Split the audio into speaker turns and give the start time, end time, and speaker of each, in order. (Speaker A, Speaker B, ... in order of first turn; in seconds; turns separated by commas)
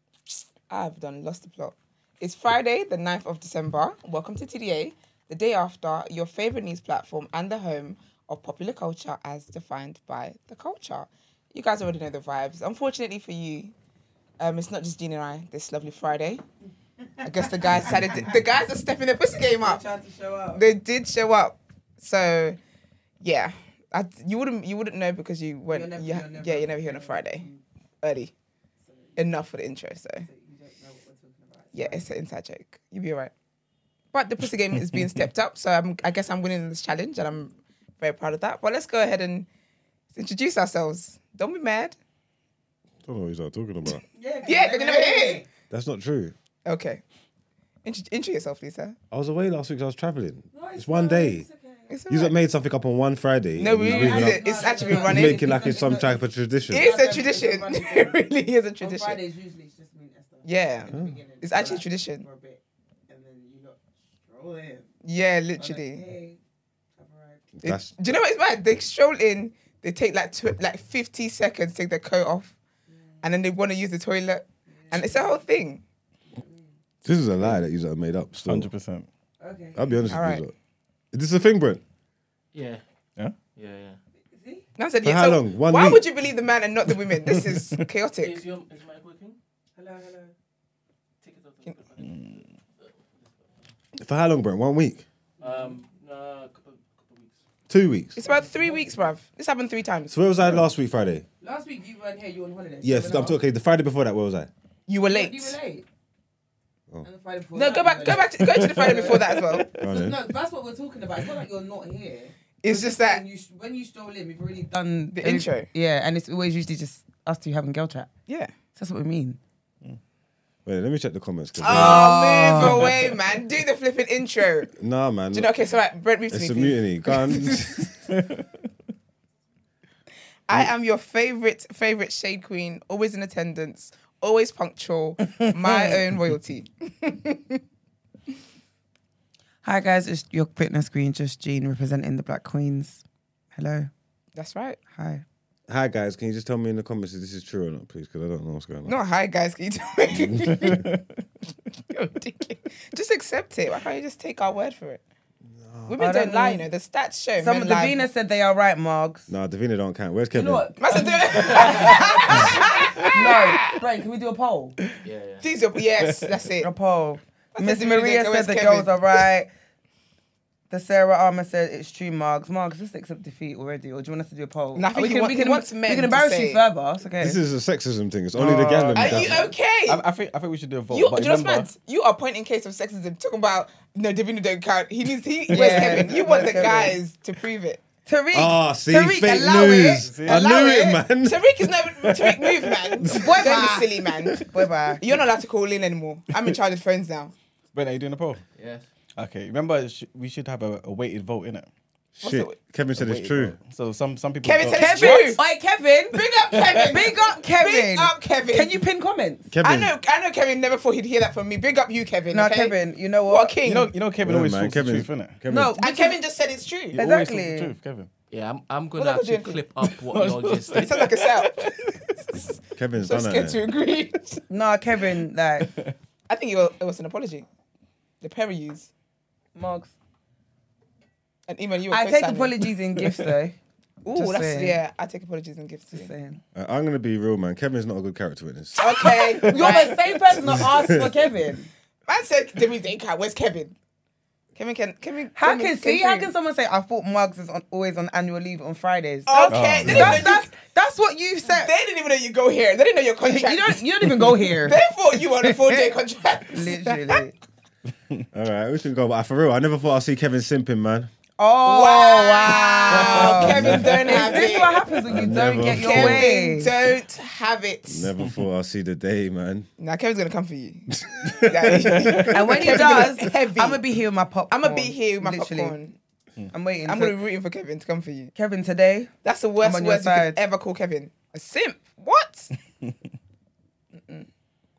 Speaker A: 0.7-13.7, Speaker A: 14.4-16.4, Speaker B: 17.2-18.3, Speaker A: 17.2-19.8, Speaker B: 19.6-20.6, Speaker A: 20.5-22.6, Speaker A: 23.2-27.5, Speaker B: 25.7-27.6, Speaker A: 28.0-28.3, Speaker B: 28.9-29.2, Speaker A: 29.2-30.3, Speaker B: 30.2-32.0, Speaker A: 31.7-33.3, Speaker A: 34.1-39.5, Speaker C: 34.9-35.3, Speaker A: 40.1-42.0, Speaker D: 43.0-44.0, Speaker B: 44.1-45.5, Speaker A: 44.5-45.4, Speaker D: 45.7-46.4, Speaker A: 46.7-47.0, Speaker A: 47.8-49.0, Speaker D: 49.1-51.5, Speaker B: 50.5-51.9, Speaker A: 51.9-52.4, Speaker D: 52.1-56.9, Speaker A: 53.6-55.8, Speaker B: 53.8-58.2, Speaker A: 56.7-59.2, Speaker B: 58.8-64.9, Speaker A: 60.4-62.2, Speaker D: 60.9-61.2, Speaker A: 65.0-66.0, Speaker B: 65.6-66.4, Speaker B: 67.0-67.5, Speaker D: 67.6-68.0, Speaker A: 67.7-72.5, Speaker A: 73.2-75.8, Speaker B: 74.8-75.4, Speaker B: 76.3-76.7, Speaker D: 77.0-78.7, Speaker C: 78.4-79.1, Speaker B: 79.4-79.8, Speaker D: 79.8-80.5, Speaker A: 80.1-80.5, Speaker D: 81.1-81.8, Speaker E: 82.5-82.8, Speaker E: 83.6-84.0, Speaker B: 84.3-84.6, Speaker A: 84.8-88.4, Speaker D: 85.0-86.0, Speaker C: 87.3-87.8, Speaker E: 88.2-89.4, Speaker B: 89.8-90.3, Speaker E: 91.2-92.3, Speaker C: 92.0-92.5, Speaker D: 94.0-95.0, Speaker E: 95.4-97.4, Speaker B: 95.4-95.7, Speaker D: 97.7-98.2, Speaker A: 98.2-100.2, Speaker D: 100.1-101.3, Speaker C: 100.4-100.7, Speaker B: 101.4-103.4, Speaker D: 102.8-104.5, Speaker A: 104.9-105.6, Speaker B: 105.1-105.9, Speaker B: 107.0-118.1, Speaker A: 107.5-109.7, Speaker C: 108.1-109.9, Speaker D: 109.8-110.2, Speaker A: 112.6-113.2, Speaker A: 115.1-115.7, Speaker A: 118.3-118.5, Speaker B: 118.8-119.4, Speaker D: 120.7-122.9, Speaker B: 121.6-122.9, Speaker A: 121.6-124.7, Speaker D: 124.8-125.5, Speaker A: 125.3-126.8, Speaker D: 126.3-127.9, Speaker C: 128.0-128.7, Speaker A: 130.5-137.6, Speaker B: 135.2-136.0, Speaker B: 139.6-143.0, Speaker B: 143.6-143.9, Speaker A: 144.3-144.8, Speaker B: 144.9-145.2, Speaker D: 145.7-149.0, Speaker A: 148.9-150.9, Speaker D: 150.2-150.7, Speaker C: 150.5-151.0, Speaker A: 151.9-155.0, Speaker D: 155.5-155.9, Speaker A: 155.9-158.0, Speaker B: 156.0-156.7, Speaker B: 157.4-159.3, Speaker D: 159.3-160.7, Speaker B: 160.3-164.8, Speaker A: 160.8-163.7, Speaker E: 165.0-165.4, Speaker A: 165.4-166.7, Speaker C: 166.0-166.3, Speaker B: 166.6-169.5, Speaker A: 167.6-169.2, Speaker B: 170.7-177.4, Speaker A: 174.8-176.6, Speaker D: 177.2-179.5, Speaker B: 178.4-179.2, Speaker C: 178.4-181.7, Speaker A: 178.9-180.0, Speaker A: 180.9-187.8, Speaker B: 185.5-187.0, Speaker C: 185.6-186.5, Speaker B: 188.1-190.1, Speaker D: 188.3-191.7, Speaker C: 190.0-190.5, Speaker A: 190.2-194.5, Speaker C: 192.1-193.1, Speaker D: 193.0-193.6, Speaker B: 193.1-195.0, Speaker A: 195.0-197.3, Speaker C: 197.7-198.4, Speaker E: 198.6-198.9, Speaker C: 199.2-201.7, Speaker D: 202.2-203.6, Speaker A: 202.2-202.6, Speaker C: 202.9-205.4, Speaker A: 204.4-205.4, Speaker B: 204.7-206.3, Speaker A: 206.1-208.8, Speaker C: 206.4-207.0, Speaker B: 206.9-209.5, Speaker D: 209.5-209.9, Speaker A: 209.6-214.0, Speaker B: 212.3-213.6, Speaker C: 213.6-215.4, Speaker D: 214.2-215.8, Speaker B: 215.5-216.2, Speaker A: 215.8-217.0, Speaker C: 216.9-218.1, Speaker B: 216.9-217.7, Speaker E: 218.3-221.1, Speaker A: 219.0-219.6, Speaker C: 219.8-222.5, Speaker A: 220.8-221.6, Speaker D: 222.8-223.6, Speaker A: 223.0-224.4, Speaker B: 224.5-225.7, Speaker C: 225.6-225.9, Speaker A: 226.3-227.5, Speaker A: 228.2-228.9, Speaker B: 229.6-229.9, Speaker A: 231.5-232.7, Speaker B: 231.9-233.6, Speaker C: 233.0-233.3, Speaker A: 234.0-236.1, Speaker B: 234.1-234.8, Speaker B: 235.9-236.4, Speaker D: 236.6-238.8, Speaker A: 238.8-241.0, Speaker B: 238.8-241.7, Speaker D: 240.5-241.0, Speaker A: 242.1-243.8, Speaker A: 244.6-246.3, Speaker B: 245.3-251.7, Speaker A: 249.3-250.5, Speaker C: 249.5-250.3, Speaker A: 251.4-253.9, Speaker B: 253.3-254.8, Speaker A: 254.6-257.2, Speaker B: 256.5-257.4, Speaker D: 258.3-261.1, Speaker B: 261.4-266.7, Speaker A: 261.7-265.1, Speaker C: 263.0-263.8, Speaker D: 263.4-264.2, Speaker D: 265.1-266.3, Speaker A: 265.7-268.1, Speaker D: 267.9-269.7, Speaker A: 269.8-273.8, Speaker D: 271.1-272.3, Speaker B: 272.3-275.8, Speaker C: 272.5-273.1, Speaker A: 274.5-276.0, Speaker B: 276.5-277.2, Speaker A: 276.9-278.3, Speaker B: 278.4-280.4, Speaker A: 279.2-282.5, Speaker A: 283.9-284.3